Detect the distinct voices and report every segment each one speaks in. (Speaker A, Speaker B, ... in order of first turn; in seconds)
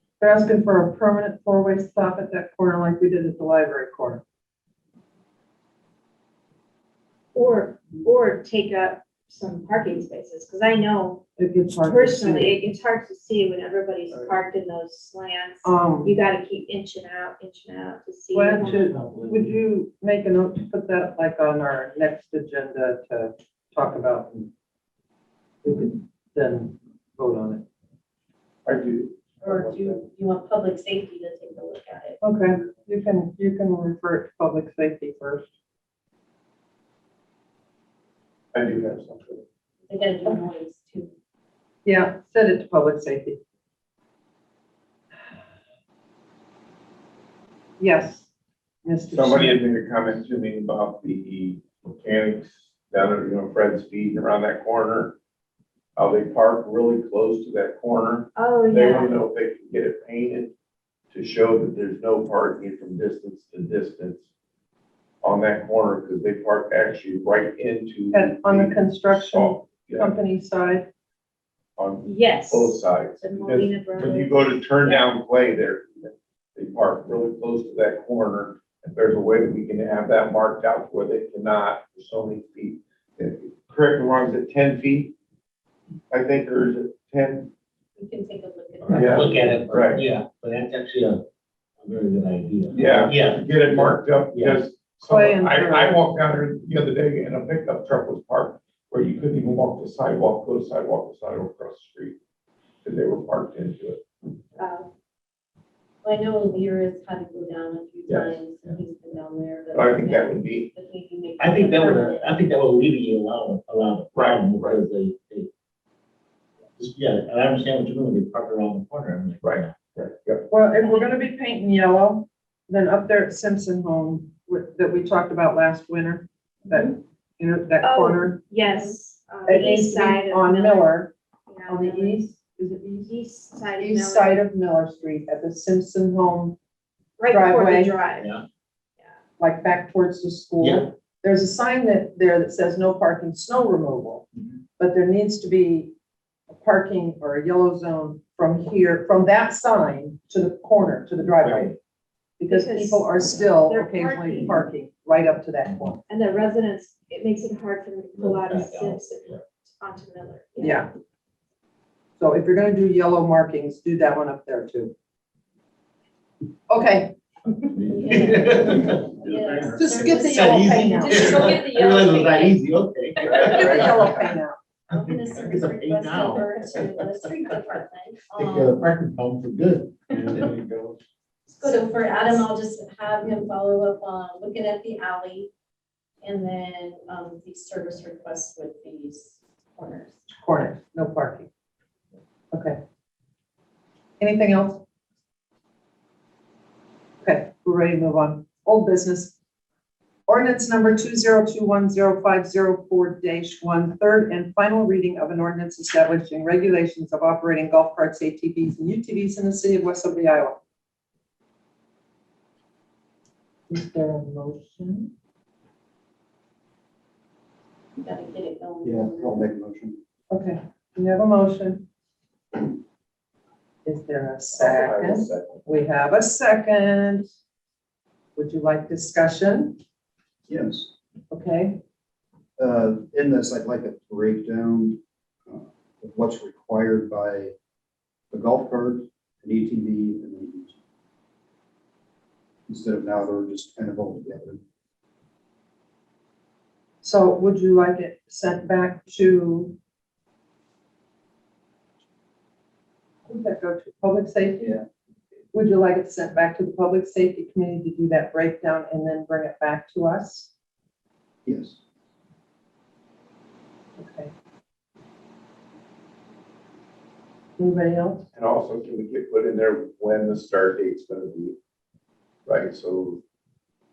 Speaker A: 0.2-4.2, 11.4-12.6, 15.6-16.1, 18.3-24.5, 25.6-27.6, 32.2-35.5, 41.8-43.4, 47.8-48.3, 48.8-49.6, 68.1-70.9, 95.0-96.1, 120.5-128.4, 129.4-131.1, 131.7-133.1, 133.8-136.6, 137.3-137.9, 139.4-145.9, 146.5-151.8, 152.4-156.0, 160.6-160.9, 162.2-164.9, 166.7-167.2, 169.8-171.4, 173.4-174.6, 190.4-191.5, 192.5-192.8, 194.2-194.8, 197.2-199.3, 200.3-210.6, 213.7-215.1, 220.3-221.8, 223.8-227.2, 228.3-229.8, 231.3-231.8, 247.0-249.7, 253.2-254.8, 255.5-260.5, 264.0-264.3, 267.6-268.3
Speaker B: 7.3-11.2, 11.7-18.8, 58.3-59.1, 72.0-75.1, 104.6-104.9, 120.8-121.1, 127.8-132.2, 133.1-134.3, 137.2-138.4, 152.5-154.6, 156.1-160.8
Speaker C: 18.6-19.5, 88.8-91.2, 91.8-94.6, 111.4-115.5, 116.8-119.8, 138.2-138.4, 140.6-140.9, 151.2-151.7, 158.1-159.4, 167.5-174.2, 174.9-177.1, 178.3-180.6
Speaker D: 28.6-30.0, 38.5-39.4, 49.1-55.2, 56.0-60.5, 61.1-64.2, 65.2-70.1, 71.8-85.2, 86.1-87.5, 88.9-90.0, 92.7-102.2, 102.8-104.0, 108.1-108.4, 109.7-110.7, 114.1-114.8, 119.4-120.5, 173.2-173.8, 180.5-180.9, 224.5-225.6, 268.3-271.6, 272.4-273.2
Speaker E: 29.4-32.2, 39.9-41.1, 88.0-89.6, 106.0-112.4, 128.7-128.9, 167.9-172.5, 174.9-178.8, 181.5-185.5, 186.2-190.2, 218.0-219.5
Speaker F: 218.8-220.0, 230.5-230.9, 232.6-237.5, 238.3-240.8, 242.7-244.6, 261.4-261.8